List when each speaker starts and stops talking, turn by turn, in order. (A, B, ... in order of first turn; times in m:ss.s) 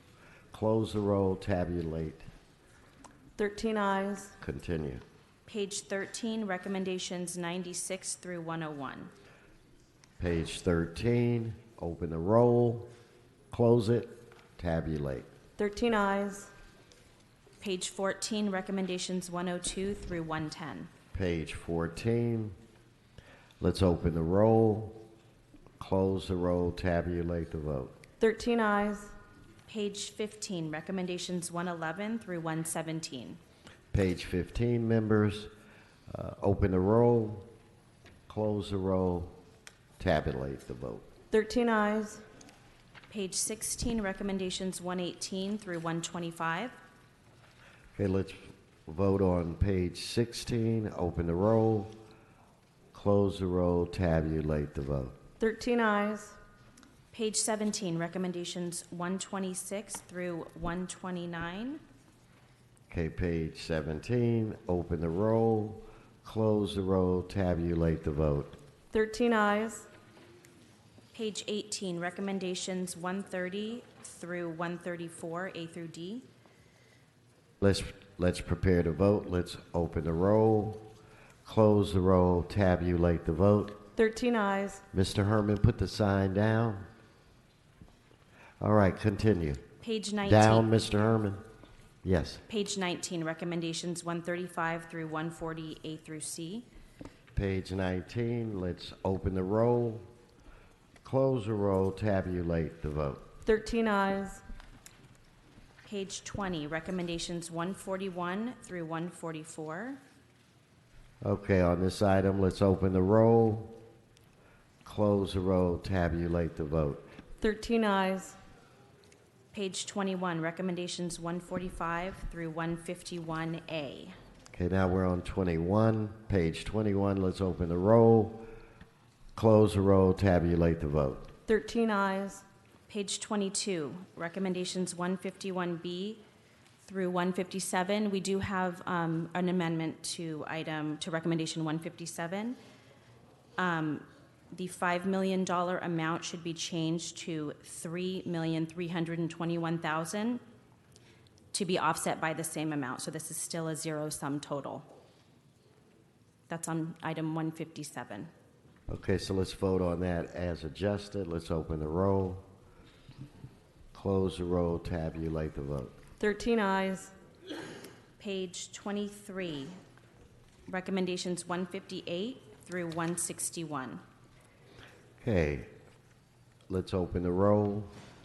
0:00.5-0:02.2 A
0:03.4-0:04.3 B
0:04.4-0:05.0 A
0:05.5-0:09.1 C
0:10.2-0:12.9 A
0:13.5-0:15.3 A
0:15.6-0:16.5 B
0:17.6-0:20.9 C
0:21.1-0:22.6 A
0:23.6-0:25.0 A
0:25.8-0:27.9 A
0:28.2-0:29.1 B
0:29.7-0:33.4 C
0:33.9-0:35.5 A
0:36.1-0:37.5 A
0:38.3-0:39.3 A
0:40.0-0:41.0 A
0:41.3-0:42.2 B
0:43.1-0:46.7 C
0:48.0-0:51.9 A
0:52.9-0:55.2 A
0:55.4-0:56.4 B
0:57.1-1:01.8 C
1:02.9-1:08.6 A
1:08.9-1:09.9 B
1:11.1-1:16.2 C
1:17.6-1:20.8 A
1:21.4-1:23.8 A
1:24.0-1:24.8 B
1:24.9-1:26.8 A
1:28.6-1:29.6 A
1:29.8-1:30.6 C
1:30.2-1:31.4 A
1:32.0-1:32.4 A
1:32.5-1:36.6 C
1:37.3-1:40.1 A
1:41.0-1:43.2 A
1:43.4-1:44.4 B
1:45.8-1:50.0 C
1:51.2-1:53.8 A
1:54.8-1:57.0 A
1:57.4-1:58.4 B
1:59.5-2:04.1 C
2:04.5-2:08.5 A
2:09.4-2:11.3 A
2:11.5-2:12.4 B
2:12.9-2:16.2 C
2:16.8-2:22.6 C
2:23.6-2:30.4 C
2:31.5-2:34.9 C
2:36.5-2:38.3 C
2:38.9-2:42.4 A
2:43.9-2:45.9 A
2:46.2-2:47.1 B
2:48.2-2:49.8 C
2:50.7-2:54.0 C
2:55.2-2:55.7 A
2:56.7-2:57.9 A